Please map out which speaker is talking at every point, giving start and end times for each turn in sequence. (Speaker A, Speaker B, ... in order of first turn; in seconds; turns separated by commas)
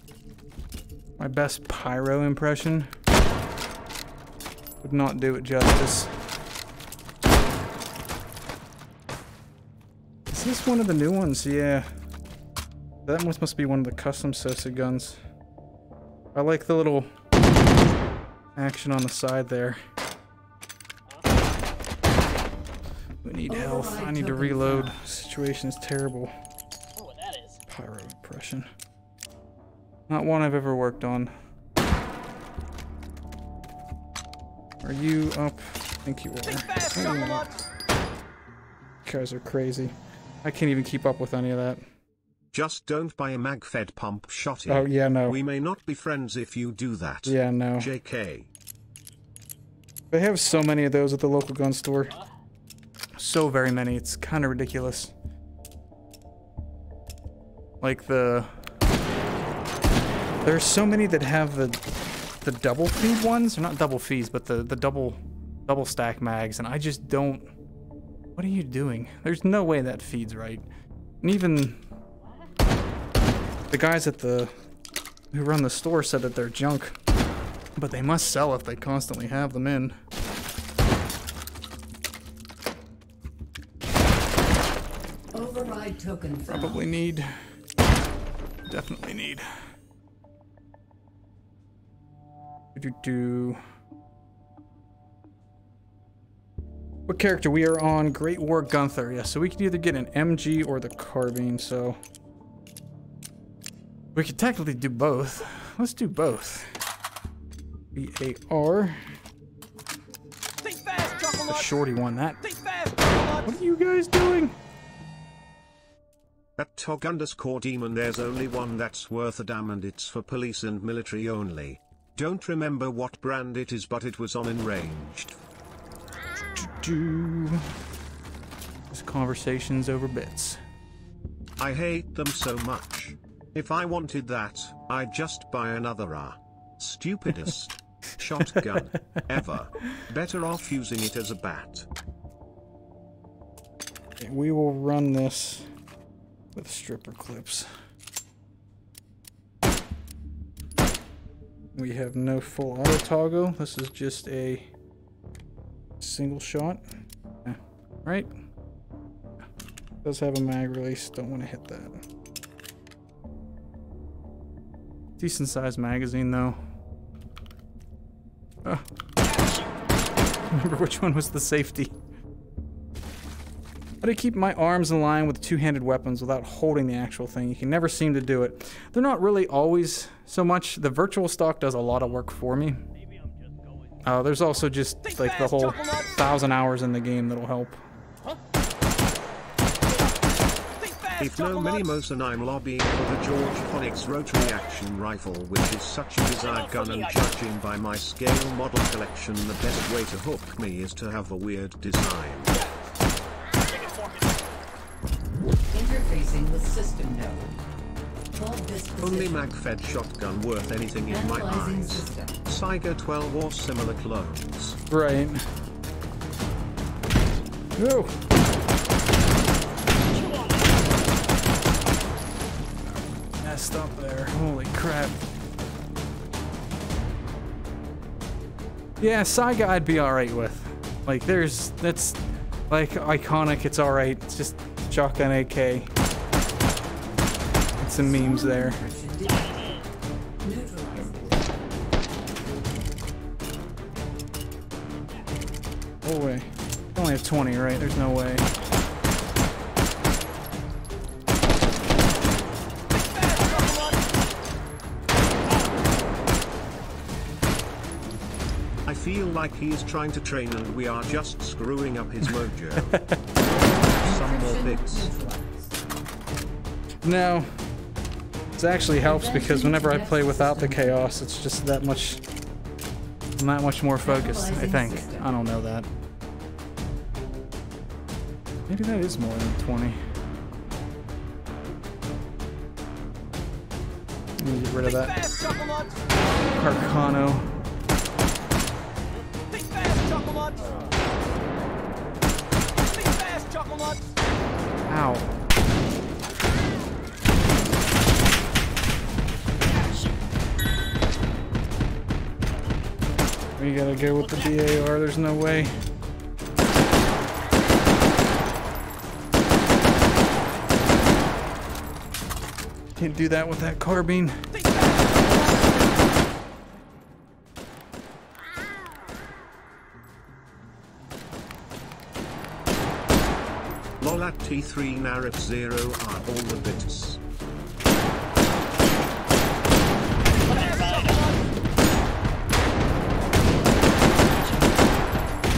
Speaker A: 1.2-2.9, Speaker A: 4.8-6.1, Speaker A: 10.3-11.9, Speaker A: 13.1-15.2, Speaker A: 16.3-17.1, Speaker A: 18.6-19.8, Speaker B: 21.1-21.3, Speaker A: 23.2-26.3, Speaker C: 23.5-25.0, Speaker B: 26.9-27.6, Speaker A: 27.7-28.7, Speaker A: 30.1-31.3, Speaker A: 34.8-37.5, Speaker A: 39.0-41.8, Speaker D: 42.5-48.5, Speaker A: 44.7-45.4, Speaker A: 47.2-47.9, Speaker A: 50.1-52.2, Speaker A: 53.2-55.1, Speaker A: 57.8-58.5, Speaker A: 60.4-61.8, Speaker A: 62.4-67.5, Speaker A: 68.3-70.7, Speaker A: 71.2-71.8, Speaker B: 72.2-72.5, Speaker A: 73.7-74.5, Speaker A: 75.3-77.0, Speaker A: 77.8-80.0, Speaker C: 85.3-86.8, Speaker A: 86.5-87.3, Speaker A: 88.7-89.4, Speaker A: 92.7-93.6, Speaker A: 97.1-102.0, Speaker A: 104.1-106.7, Speaker A: 107.9-109.0, Speaker A: 111.5-112.4, Speaker A: 113.3-114.5, Speaker D: 116.6-125.4, Speaker A: 126.5-127.7, Speaker A: 128.9-130.6, Speaker D: 131.6-141.9, Speaker A: 144.2-145.7, Speaker A: 146.5-147.7, Speaker A: 151.8-154.7, Speaker A: 156.0-156.8, Speaker A: 157.4-158.3, Speaker A: 160.0-162.0, Speaker A: 165.2-166.6, Speaker B: 169.2-169.9, Speaker A: 170.5-172.0, Speaker A: 174.0-182.8, Speaker B: 181.8-182.2, Speaker B: 182.9-184.6, Speaker A: 184.0-187.8, Speaker B: 189.9-190.2, Speaker D: 191.2-202.5, Speaker B: 196.3-197.3, Speaker B: 202.5-202.7, Speaker B: 203.6-204.5, Speaker C: 205.7-207.6, Speaker C: 208.3-209.5, Speaker D: 209.0-214.8, Speaker C: 211.1-212.4, Speaker A: 214.9-215.4, Speaker A: 217.8-218.1, Speaker B: 220.1-220.9, Speaker A: 223.4-225.3, Speaker A: 229.0-235.9, Speaker A: 237.8-238.8, Speaker C: 238.0-239.8, Speaker B: 239.2-239.9, Speaker C: 240.4-241.7, Speaker A: 246.0-248.5, Speaker D: 258.8-263.0, Speaker A: 262.8-263.2, Speaker C: 263.7-265.7, Speaker D: 264.0-265.1, Speaker A: 267.0-267.7, Speaker A: 268.6-272.2, Speaker C: 269.0-271.1, Speaker A: 273.4-275.9, Speaker C: 274.0-275.3, Speaker A: 278.7-280.0, Speaker A: 284.4-285.2, Speaker A: 286.5-287.5, Speaker B: 290.4-291.0, Speaker A: 294.9-295.3, Speaker B: 299.6-300.2, Speaker A: 303.6-305.8, Speaker B: 304.1-304.8, Speaker A: 313.0-314.5, Speaker D: 324.0-327.2, Speaker B: 330.4-331.5, Speaker B: 334.1-334.8